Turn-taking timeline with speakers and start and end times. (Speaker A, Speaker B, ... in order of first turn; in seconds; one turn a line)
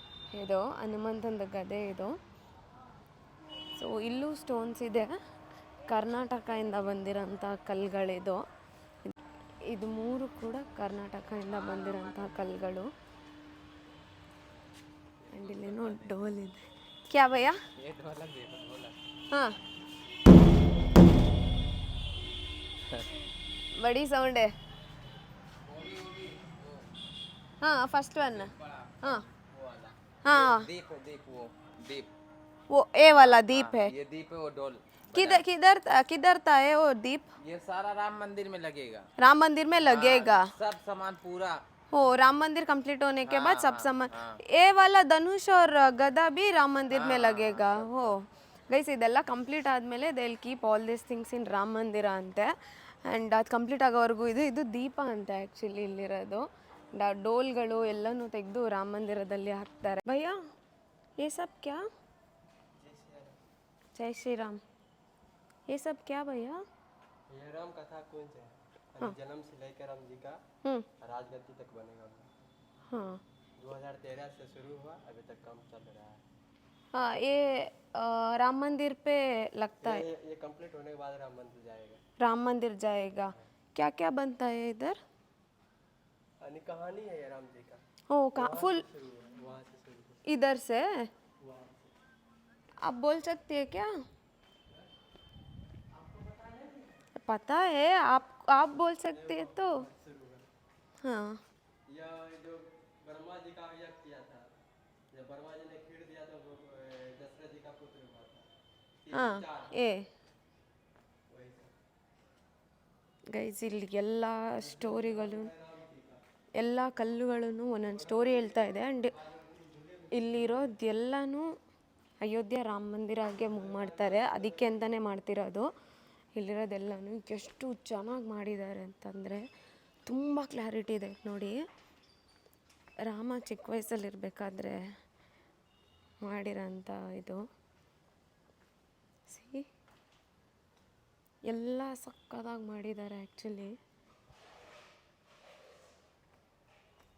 Speaker A: 0.3-2.1
Speaker A: 3.8-5.1
Speaker A: 5.9-8.4
Speaker A: 9.7-12.9
Speaker B: 15.2-16.1
Speaker A: 15.3-17.6
Speaker C: 17.8-18.9
Speaker A: 23.8-24.5
Speaker C: 25.7-26.8
Speaker A: 27.6-29.2
Speaker C: 29.1-32.1
Speaker A: 30.2-30.7
Speaker A: 32.7-33.9
Speaker C: 33.2-35.4
Speaker A: 35.1-37.3
Speaker C: 37.4-39.1
Speaker A: 39.2-40.5
Speaker C: 39.9-41.6
Speaker A: 41.9-60.4
Speaker C: 43.2-44.4
Speaker C: 46.9-48.1
Speaker A: 61.2-61.8
Speaker B: 62.8-63.4
Speaker A: 63.9-64.6
Speaker A: 65.7-66.6
Speaker B: 67.3-70.4
Speaker B: 71.0-72.3
Speaker A: 72.9-73.2
Speaker B: 73.6-76.2
Speaker A: 76.9-80.0
Speaker B: 79.8-82.0
Speaker A: 82.2-85.0
Speaker B: 86.4-87.8
Speaker A: 88.1-88.8
Speaker B: 88.3-90.2
Speaker A: 90.2-91.1
Speaker B: 91.4-91.9
Speaker A: 92.8-93.9
Speaker B: 95.9-97.0
Speaker A: 97.2-99.8
Speaker B: 99.1-100.5
Speaker A: 101.0-101.4
Speaker B: 101.9-104.5
Speaker B: 105.1-108.5
Speaker B: 109.0-109.7
Speaker A: 109.1-110.1
Speaker B: 111.3-111.7
Speaker A: 113.3-115.5
Speaker B: 114.6-116.2
Speaker A: 116.5-119.2
Speaker B: 117.8-120.7
Speaker A: 120.1-121.5
Speaker A: 122.2-125.7
Speaker B: 123.4-124.9
Speaker A: 126.3-129.4
Speaker A: 130.1-131.6
Speaker A: 133.1-134.8
Speaker A: 136.2-137.4
Speaker A: 139.3-139.7
Speaker A: 141.4-143.8